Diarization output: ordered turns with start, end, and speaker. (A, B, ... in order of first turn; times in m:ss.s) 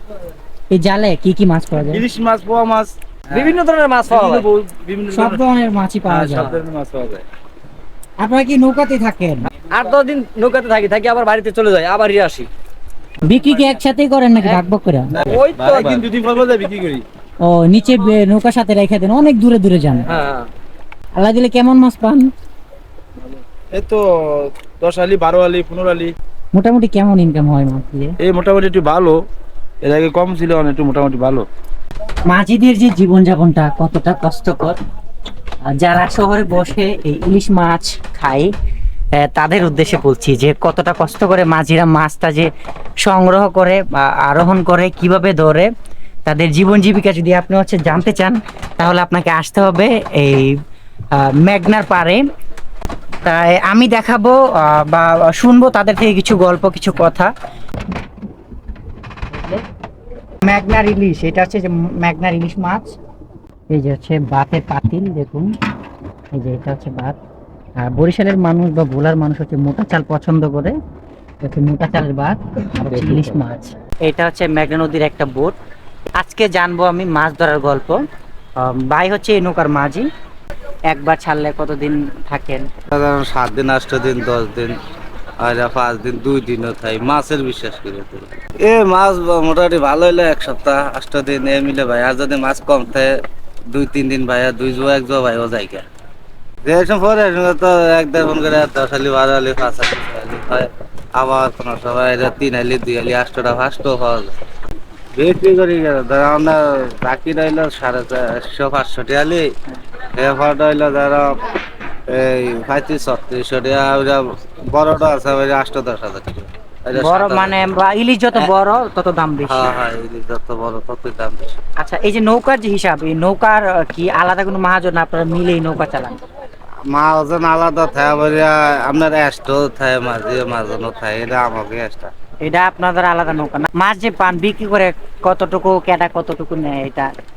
0:00.7-0:02.0 A
0:01.9-0:02.9 B
0:03.3-0:04.5 C
0:04.1-0:05.4 B
0:04.2-0:04.5 D
0:05.1-0:06.6 A
0:06.1-0:07.2 D
0:06.2-0:07.2 B
0:08.2-0:09.5 A
0:09.7-0:12.5 C
0:13.2-0:15.2 A
0:15.2-0:16.1 D
0:15.2-0:16.8 B
0:15.2-0:17.0 C
0:17.4-0:20.1 A
0:20.1-0:20.4 C
0:21.2-0:22.3 A
0:23.7-0:26.1 B
0:26.5-0:28.2 A
0:28.2-0:29.2 B
0:29.8-0:31.5 B
0:32.3-0:34.8 A
0:35.7-0:38.5 A
0:39.2-0:42.5 A
0:43.0-0:45.7 A
0:46.3-0:50.6 A
0:51.1-0:52.2 A
0:53.2-0:57.3 A
0:59.3-0:59.6 A
1:00.4-1:02.9 A
1:03.7-1:05.5 A
1:06.3-1:07.2 A
1:07.8-1:10.8 A
1:11.4-1:15.6 A
1:12.9-1:13.4 D
1:16.2-1:18.0 A
1:18.6-1:20.1 A
1:20.9-1:22.7 A
1:22.9-1:24.8 D
1:25.4-1:33.1 D
1:33.7-1:35.8 D
1:36.6-1:44.3 D
1:45.2-1:49.5 D
1:50.2-1:51.4 D
1:52.1-1:57.7 D
1:57.0-1:59.7 A
1:59.5-2:01.6 D
2:01.8-2:06.2 A
2:06.9-2:12.1 D
2:12.4-2:17.1 A